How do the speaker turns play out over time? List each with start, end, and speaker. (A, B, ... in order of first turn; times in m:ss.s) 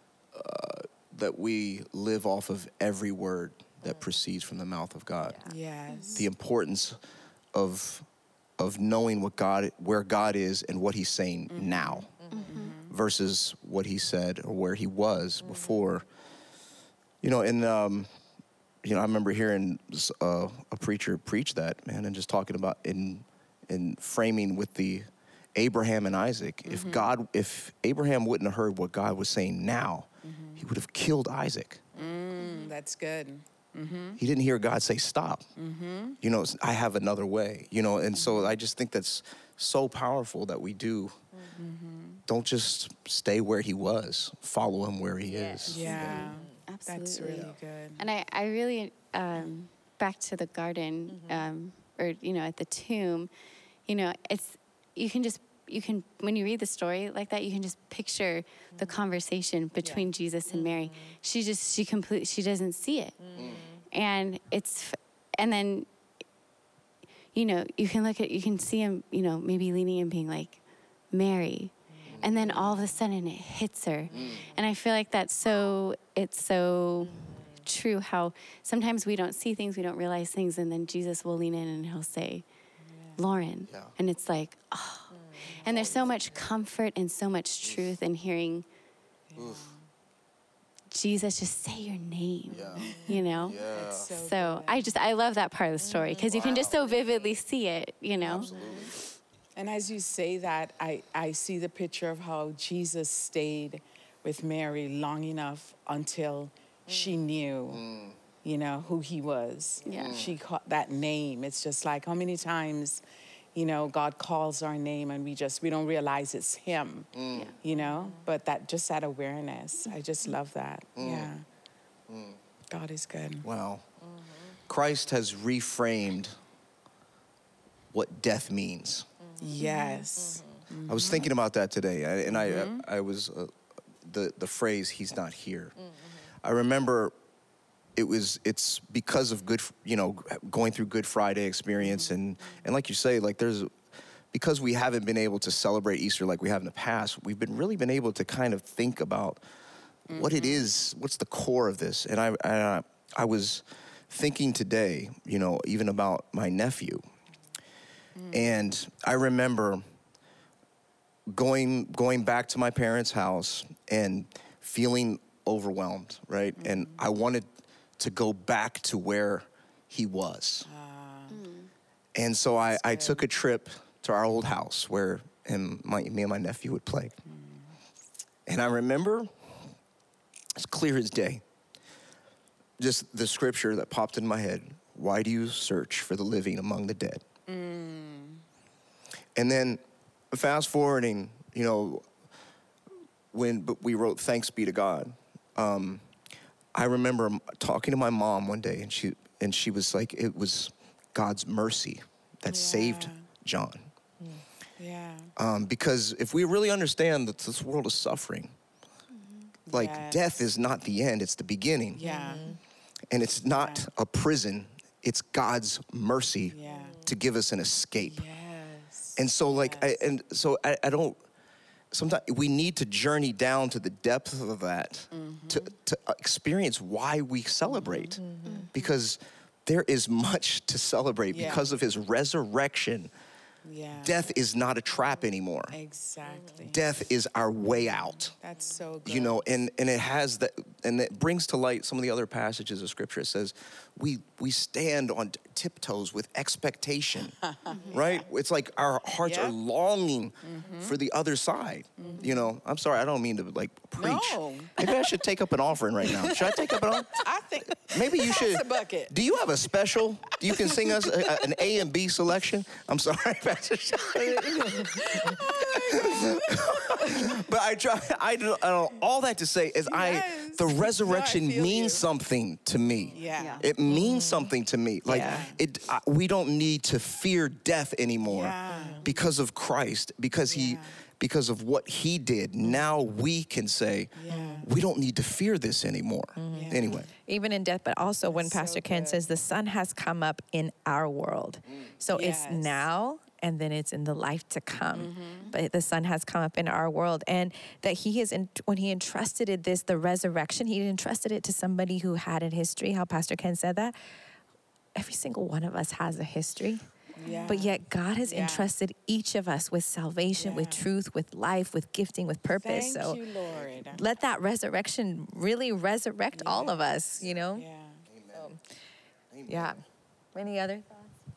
0:00.3-0:05.4 A
0:03.8-0:04.2 B
0:05.4-0:06.3 C
0:05.9-0:06.3 D
0:06.2-0:07.0 A
0:07.5-0:08.0 A
0:08.6-0:12.1 A
0:11.5-0:12.9 C
0:12.1-0:12.7 B
0:12.3-0:12.8 D
0:12.9-0:16.0 A
0:15.4-0:15.9 B
0:17.2-0:18.1 A
0:18.8-0:30.1 A
0:26.7-0:27.1 C
0:30.2-0:30.7 C
0:30.6-0:31.9 A
0:32.0-0:34.2 C
0:34.2-0:35.4 A
0:35.6-0:36.2 C
0:36.2-0:41.2 A
0:38.1-0:38.6 C
0:41.6-0:42.2 C
0:42.3-0:46.3 A
0:45.2-0:46.6 B
0:45.7-0:48.0 C
0:46.1-0:53.3 D
0:51.1-0:51.5 B
0:53.9-1:03.2 D
0:58.7-0:59.0 B
0:59.8-1:00.1 C
1:00.5-1:01.2 B
1:03.2-1:03.8 B
1:03.4-1:03.6 A
1:03.9-1:05.9 D
1:07.3-1:10.6 D
1:11.1-1:22.4 D
1:12.2-1:12.5 A
1:17.0-1:17.6 B
1:22.9-1:23.2 C
1:23.2-1:25.1 D
1:23.7-1:24.0 A
1:25.1-1:25.5 B
1:25.6-1:26.3 C
1:25.6-1:28.6 D
1:25.6-1:26.1 A
1:27.6-1:28.0 A
1:29.3-1:29.9 C
1:29.4-1:29.7 A
1:30.9-1:33.6 D
1:32.5-1:34.1 A
1:32.8-1:35.0 C
1:34.1-1:38.5 D
1:35.8-1:36.4 B
1:36.2-1:36.9 A
1:38.2-1:38.9 A
1:38.2-1:38.8 C
1:39.6-1:47.8 C
1:46.9-1:47.2 B
1:47.7-1:48.1 A
1:48.4-1:53.0 C
1:49.8-1:50.2 D
1:50.0-1:50.3 A
1:53.6-1:57.1 C
1:57.1-1:57.5 A
1:57.6-2:01.4 C
1:57.7-1:58.2 B
2:01.0-2:01.3 A
2:02.1-2:02.4 A
2:02.7-2:03.4 C
2:03.4-2:03.9 A
2:04.7-2:06.4 A
2:07.9-2:09.1 A
2:09.2-2:10.7 B
2:09.4-2:11.3 C
2:10.9-2:13.5 A
2:12.3-2:12.8 C
2:14.0-2:15.8 A
2:16.4-2:17.1 A
2:18.0-2:23.7 A
2:21.8-2:22.2 C
2:24.3-2:29.4 A
2:30.1-2:30.7 C
2:30.1-2:37.0 A
2:38.2-2:38.6 C
2:38.3-2:39.8 A
2:41.3-2:47.5 A
2:46.6-2:47.0 C
2:48.0-2:50.7 A
2:50.7-2:51.4 C
2:51.3-2:51.7 D
2:52.1-2:57.1 A
2:52.7-2:53.3 C
2:57.3-2:57.7 C
2:58.5-2:59.3 A
3:00.6-3:01.4 A
3:02.8-3:07.2 A
3:07.5-3:08.4 C
3:09.4-3:12.0 A
3:13.3-3:16.0 A
3:16.8-3:23.9 A
3:22.5-3:23.3 C
3:24.8-3:25.3 C
3:25.4-3:28.5 A
3:29.1-3:29.5 D
3:29.7-3:30.2 C
3:29.7-3:32.0 A
3:32.0-3:32.5 C
3:32.0-3:32.6 B
3:33.1-3:38.2 A
3:33.5-3:33.9 C
3:36.5-3:37.0 C
3:36.6-3:37.1 B
3:38.0-3:40.0 C
3:39.2-3:41.2 A
3:41.9-3:48.2 A
3:45.1-3:45.7 C
3:47.7-3:48.2 C
3:48.1-3:48.7 B
3:48.4-3:48.7 D
3:48.7-3:53.1 A
3:51.3-3:51.7 C
3:53.6-3:54.2 C
3:54.0-3:55.7 A
3:54.9-3:55.3 B
3:55.7-3:56.8 C
3:56.2-3:56.6 B
3:56.6-3:58.4 A
3:58.0-3:59.4 C
3:59.0-4:07.3 A
4:07.4-4:08.3 C
4:07.7-4:08.1 D
4:07.9-4:17.2 A
4:09.2-4:09.6 C
4:10.4-4:11.0 C
4:12.0-4:12.4 C
4:14.0-4:15.0 C
4:16.1-4:19.1 C
4:17.9-4:25.0 A
4:20.4-4:21.1 C
4:24.4-4:26.6 C
4:25.8-4:47.1 A
4:29.7-4:32.0 C
4:32.9-4:33.6 B
4:33.1-4:34.5 C
4:35.0-4:35.6 C
4:38.3-4:39.2 C
4:38.7-4:39.0 B
4:40.4-4:40.9 C
4:44.2-4:44.7 C
4:44.3-4:44.6 B
4:46.4-5:04.0 B
4:46.4-4:47.1 C
4:48.2-4:49.2 C
4:52.1-4:52.9 C
4:54.9-4:55.6 C
5:05.0-5:13.2 B
5:07.2-5:08.7 C
5:10.3-5:10.9 C
5:12.5-5:14.0 C
5:13.9-5:17.7 B
5:16.3-5:18.0 C
5:18.1-5:18.5 A
5:18.3-5:18.6 B
5:19.3-5:19.7 A
5:19.5-5:19.8 B
5:20.4-5:21.2 B